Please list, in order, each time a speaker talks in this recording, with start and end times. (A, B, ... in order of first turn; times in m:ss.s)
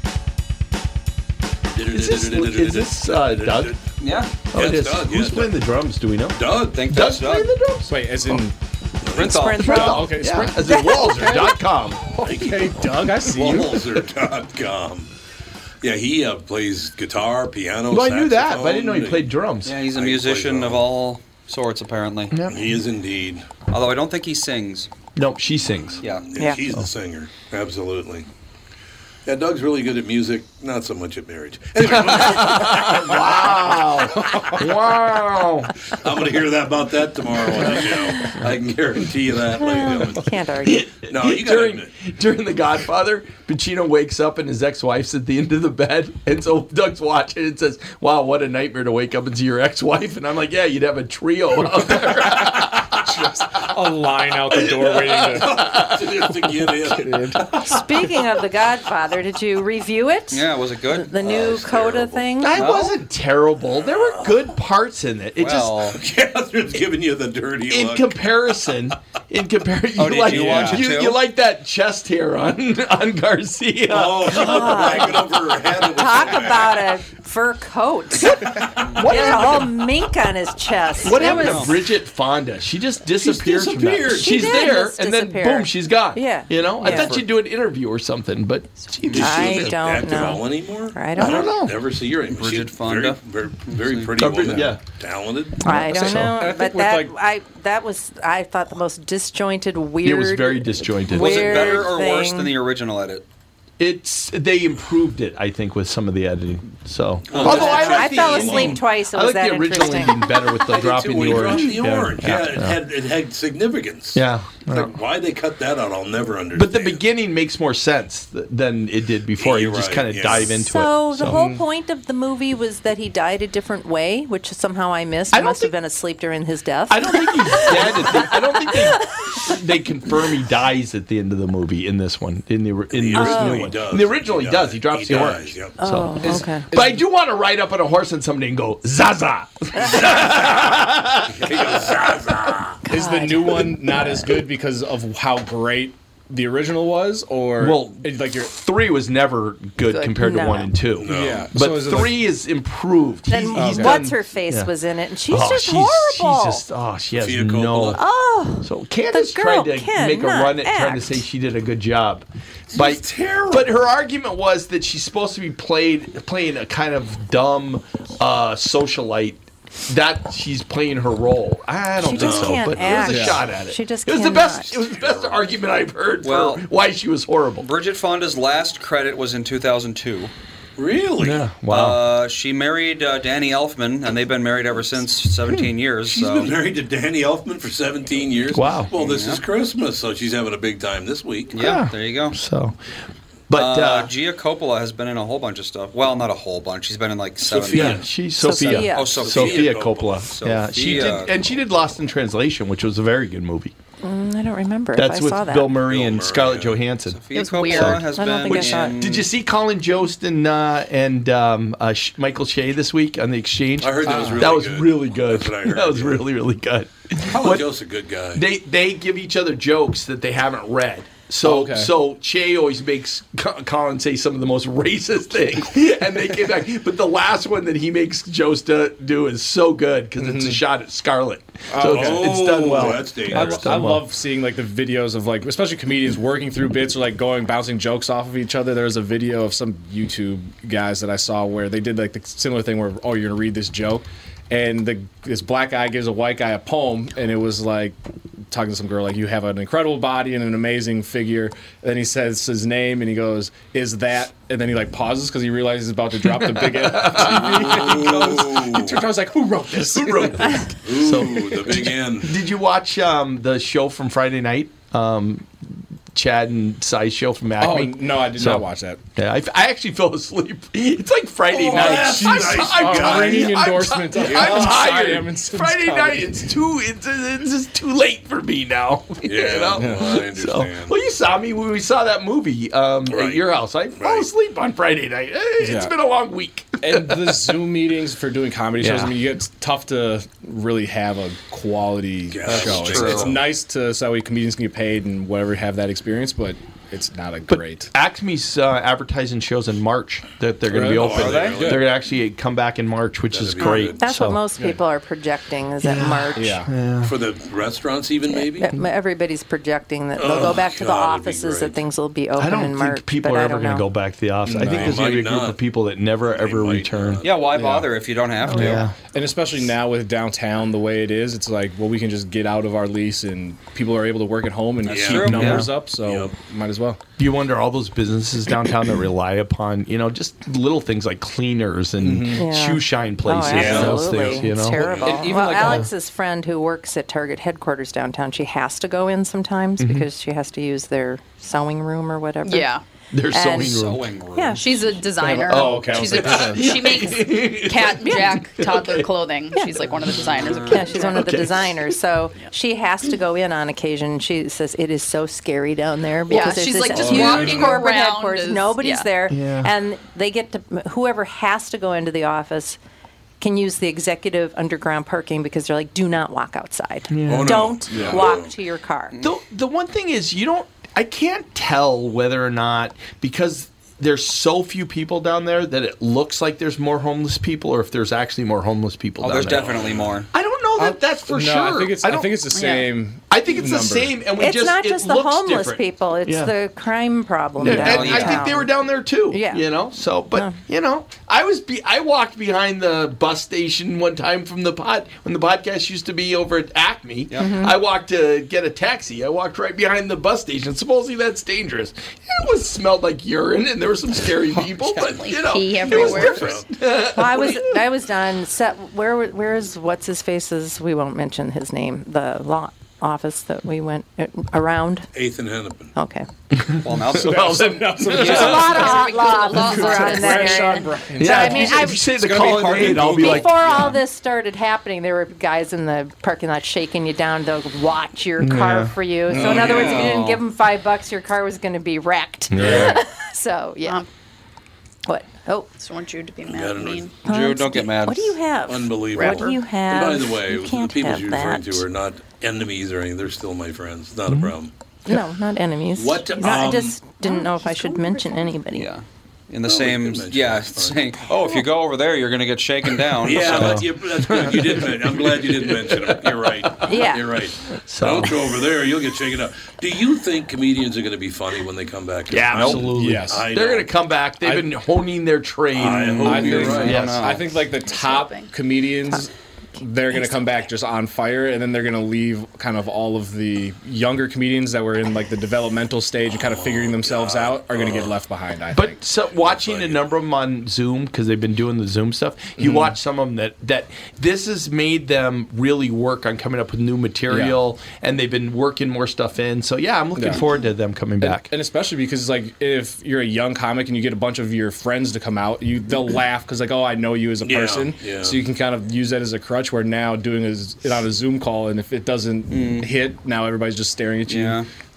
0:01.7-0:03.8 A
0:01.9-0:03.8 B
0:04.0-0:04.3 C
0:04.5-0:05.6 A
0:04.5-0:08.4 B
0:06.3-0:06.8 A
0:06.7-0:07.5 C
0:07.9-0:08.6 D
0:09.0-0:09.5 A
0:09.1-0:11.6 E
0:09.2-0:09.8 C
0:09.5-0:12.0 B
0:09.7-0:10.8 D
0:12.2-0:13.9 D
0:12.2-0:15.1 A
0:15.8-0:19.3 A
0:17.9-0:19.7 B
0:19.6-0:22.4 C
0:19.9-0:20.8 A
0:22.3-0:22.6 B
0:22.5-0:23.4 A
0:23.7-0:24.9 C
0:25.2-0:26.0 B
0:26.0-0:26.3 C
0:26.2-0:28.3 A
0:29.2-0:33.6 A
0:31.9-0:35.7 B
0:34.2-0:34.6 A
0:35.9-0:40.3 A
0:37.8-0:38.5 B
0:39.6-0:40.9 E
0:40.6-0:52.9 B
0:41.1-0:41.9 A
0:51.8-0:55.6 D
0:54.5-0:56.2 B
0:55.3-0:57.8 A
0:56.9-0:57.6 D
0:57.6-1:02.9 E
1:00.3-1:01.5 C
1:01.2-1:02.3 A
1:02.4-1:05.8 B
1:02.6-1:02.9 C
1:03.8-1:04.4 A
1:05.4-1:06.0 C
1:05.9-1:08.2 A
1:07.7-1:15.1 B
1:10.0-1:11.2 C
1:10.3-1:10.8 D
1:13.9-1:17.0 A
1:14.2-1:21.8 E
1:18.9-1:19.2 C
1:18.9-1:19.7 B
1:21.0-1:29.9 B
1:21.2-1:21.7 C
1:23.2-1:24.7 A
1:24.1-1:27.2 E
1:26.8-1:27.1 D
1:29.1-1:31.5 E
1:29.2-1:35.7 A
1:31.2-1:31.8 B
1:32.3-1:34.1 C
1:34.2-1:34.8 B
1:34.4-1:34.7 D
1:35.6-1:42.5 E
1:35.7-1:36.4 B
1:35.7-1:37.1 D
1:40.0-1:41.9 B
1:41.1-1:43.2 C
1:43.8-1:52.8 B
1:47.3-1:48.8 A
1:47.3-1:50.4 E
1:50.6-1:57.0 A
1:54.1-1:54.9 B
1:56.5-2:01.6 B
1:59.4-2:00.5 A
2:00.5-2:09.5 E
2:01.2-2:01.6 D
2:05.3-2:05.7 B
2:06.9-2:21.6 B
2:12.9-2:15.7 A
2:13.1-2:13.7 E
2:15.8-2:16.7 E
2:16.7-2:17.0 D
2:19.8-2:22.8 A
2:22.8-2:24.2 E
2:22.9-2:28.5 D
2:27.6-2:34.7 B
2:29.8-2:30.7 E
2:31.0-2:31.5 A
2:31.1-2:32.2 D
2:33.3-2:36.6 E
2:33.5-2:34.0 D
2:35.3-2:38.0 B
2:37.2-2:38.0 A
2:37.9-2:41.2 E
2:38.6-2:57.7 B
2:42.7-2:43.7 A
2:52.0-2:54.8 E
2:52.1-2:53.2 A
2:53.1-2:53.4 D
2:54.9-2:55.4 A
2:56.2-2:56.7 C
2:57.6-3:00.3 C
3:00.8-3:01.5 A
3:01.2-3:02.0 B
3:01.7-3:06.5 C
3:06.1-3:11.5 A
3:08.5-3:08.9 B
3:09.0-3:09.4 C
3:11.5-3:12.4 C
3:11.6-3:12.8 B
3:13.5-3:14.1 B
3:13.5-3:18.0 C
3:17.4-3:18.1 A
3:17.7-3:23.7 B
3:18.3-3:19.3 E
3:18.8-3:21.3 C
3:19.2-3:20.3 A
3:24.0-3:25.8 E
3:24.9-3:37.7 B
3:25.8-3:26.8 A
3:27.1-3:29.3 C
3:27.3-3:28.0 F
3:28.0-3:29.0 E
3:33.8-3:36.2 A
3:34.0-3:34.5 D
3:37.2-3:38.4 A
3:38.3-3:54.0 B
3:41.4-3:41.9 D
3:50.2-3:50.6 D
3:51.7-4:08.0 D
3:51.8-3:53.8 A
4:08.5-4:20.7 D
4:16.2-4:18.7 B
4:17.1-4:19.0 A
4:19.7-4:28.6 B
4:20.8-4:22.4 A
4:27.6-4:29.0 D
4:29.2-4:47.6 B
4:31.5-4:33.5 A
4:31.6-4:36.4 D
4:34.2-4:34.8 A
4:39.2-4:40.9 A
4:39.8-4:40.2 D
4:43.1-4:43.4 A
4:44.0-4:44.3 A
4:45.6-4:45.9 D
4:46.8-4:57.9 D
4:48.8-4:49.1 B
4:52.3-4:53.4 A
4:52.5-4:53.4 C
4:57.5-5:04.4 B
5:00.7-5:01.8 D
5:00.9-5:01.9 A
5:03.3-5:04.0 A
5:04.0-5:06.6 E
5:05.8-5:07.1 B
5:06.3-5:06.7 D
5:07.0-5:08.7 A
5:08.3-5:13.9 E
5:10.1-5:11.8 A
5:10.2-5:10.6 B
5:12.4-5:17.2 B
5:14.4-5:15.0 D
5:14.6-5:15.6 A
5:16.2-5:17.3 A
5:17.2-5:18.9 C
5:17.5-5:17.9 D
5:18.5-5:18.9 B
5:19.1-5:27.0 D
5:24.8-5:26.3 A
5:24.9-5:25.7 C
5:25.1-5:25.7 B
5:27.2-5:35.9 B
5:32.0-5:32.4 D
5:32.3-5:42.7 E
5:33.5-5:35.3 A
5:35.1-5:35.8 D
5:35.5-5:35.8 C
5:39.8-5:40.1 B
5:42.4-5:42.8 F
5:43.1-5:44.0 B
5:43.3-5:45.5 E
5:43.7-5:44.8 C
5:44.6-5:51.3 F
5:45.2-5:46.7 D
5:45.5-5:49.1 B
5:48.1-5:48.4 E
5:49.5-6:02.8 E
5:50.2-5:51.9 B
5:50.4-5:50.8 C
5:56.3-5:59.1 F
5:56.9-5:57.8 A
5:59.3-5:59.7 B
6:03.4-6:09.2 E
6:07.1-6:07.7 B
6:07.3-6:08.6 A
6:07.9-6:08.2 D
6:09.2-6:22.4 B
6:19.2-6:20.3 C
6:19.4-6:20.2 A
6:20.8-6:24.2 D
6:22.5-6:22.9 F
6:23.3-6:26.5 B
6:24.4-6:30.6 E
6:27.6-6:47.8 B
6:27.7-6:28.5 C
6:37.3-6:37.8 E
6:45.0-6:46.6 F
6:45.8-6:46.7 A
6:47.0-6:55.1 E
6:47.2-6:47.7 A
6:55.1-6:55.9 A
6:55.9-6:56.3 E
6:56.5-6:58.8 B
6:56.8-6:57.6 C
6:57.1-6:59.0 D
6:58.1-7:14.0 E
6:58.4-7:01.1 F
6:59.6-7:04.0 D
7:01.2-7:03.6 B
7:08.4-7:09.0 B
7:09.3-7:10.1 A
7:09.4-7:10.4 C
7:12.5-7:13.0 B
7:15.1-7:15.7 E
7:15.7-7:17.2 F
7:16.5-7:17.0 A
7:17.2-7:21.8 E
7:17.2-7:18.4 C
7:18.7-7:24.7 A
7:19.2-7:19.6 F
7:24.3-7:24.5 B
7:25.1-7:28.9 E
7:26.0-7:27.0 A
7:28.7-7:33.9 C
7:29.6-7:31.0 A
7:33.1-7:37.0 B
7:33.2-7:43.9 A
7:36.8-7:37.3 E
7:37.7-7:38.6 B
7:42.3-7:47.4 B
7:42.6-7:43.4 D
7:44.4-7:44.7 D
7:45.8-7:47.0 A
7:46.0-7:47.4 C
7:46.2-7:59.0 D
7:47.2-7:48.5 F
7:50.1-7:50.4 E
7:56.3-7:58.1 A
7:58.7-8:11.5 B
7:59.3-8:00.1 A
8:02.6-8:02.9 D
8:07.3-8:07.6 D
8:10.2-8:10.4 D
8:11.2-8:24.6 D
8:17.4-8:18.4 A
8:22.5-8:22.9 C
8:24.3-8:24.7 C